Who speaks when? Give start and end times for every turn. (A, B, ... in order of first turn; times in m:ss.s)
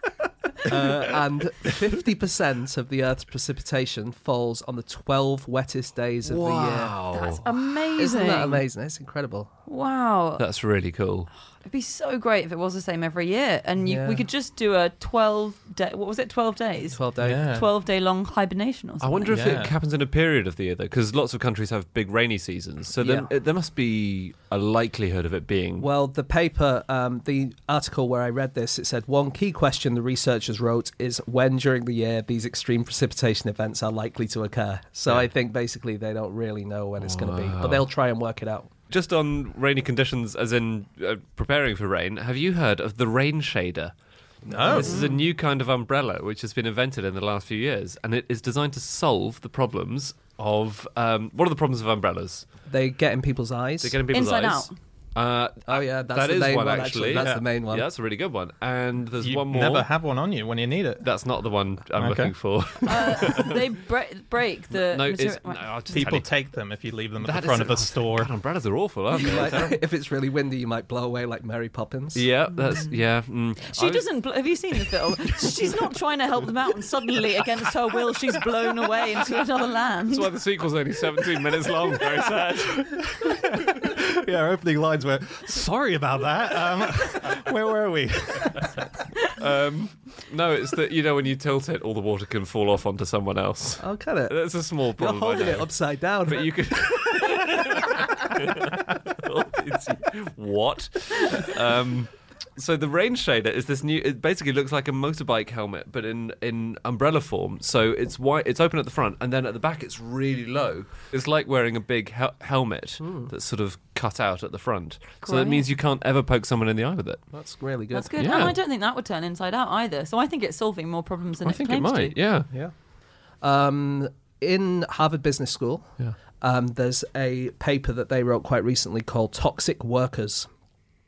0:00.6-0:07.2 A
0:06.2-0:07.4 B
0:07.1-0:08.6 C
0:08.0-0:09.5 A
0:09.7-0:10.4 C
0:10.4-0:11.3 B
0:11.5-0:19.6 C
0:13.8-0:14.2 A
0:16.9-0:17.4 A
0:17.2-0:17.7 D
0:19.0-0:25.9 B
0:19.3-0:19.7 D
0:23.0-0:23.3 A
0:25.8-0:38.7 A
0:37.0-0:37.9 B
0:38.9-0:52.5 B
0:44.4-0:45.0 A
0:44.5-0:45.0 D
0:44.8-0:45.2 C
0:52.6-0:54.0 A
0:53.8-0:59.9 B
0:54.1-0:54.8 C
0:55.7-0:57.9 A
0:57.1-0:57.4 D
0:59.2-1:01.0 D
1:01.0-1:03.5 B
1:02.0-1:02.3 D
1:02.8-1:06.1 C
1:04.7-1:06.5 B
1:05.9-1:08.3 D
1:07.2-1:09.7 B
1:09.2-1:12.3 A
1:12.1-1:14.9 B
1:12.7-1:20.3 C
1:20.1-1:23.2 B
1:23.1-1:28.9 D
1:29.4-1:57.3 B
1:33.8-1:37.1 A
1:53.0-1:53.3 A
1:55.2-1:55.6 C
1:57.3-1:58.2 A
1:57.9-2:02.2 C
1:58.2-1:58.6 B
2:01.4-2:02.5 B
2:02.5-2:10.5 A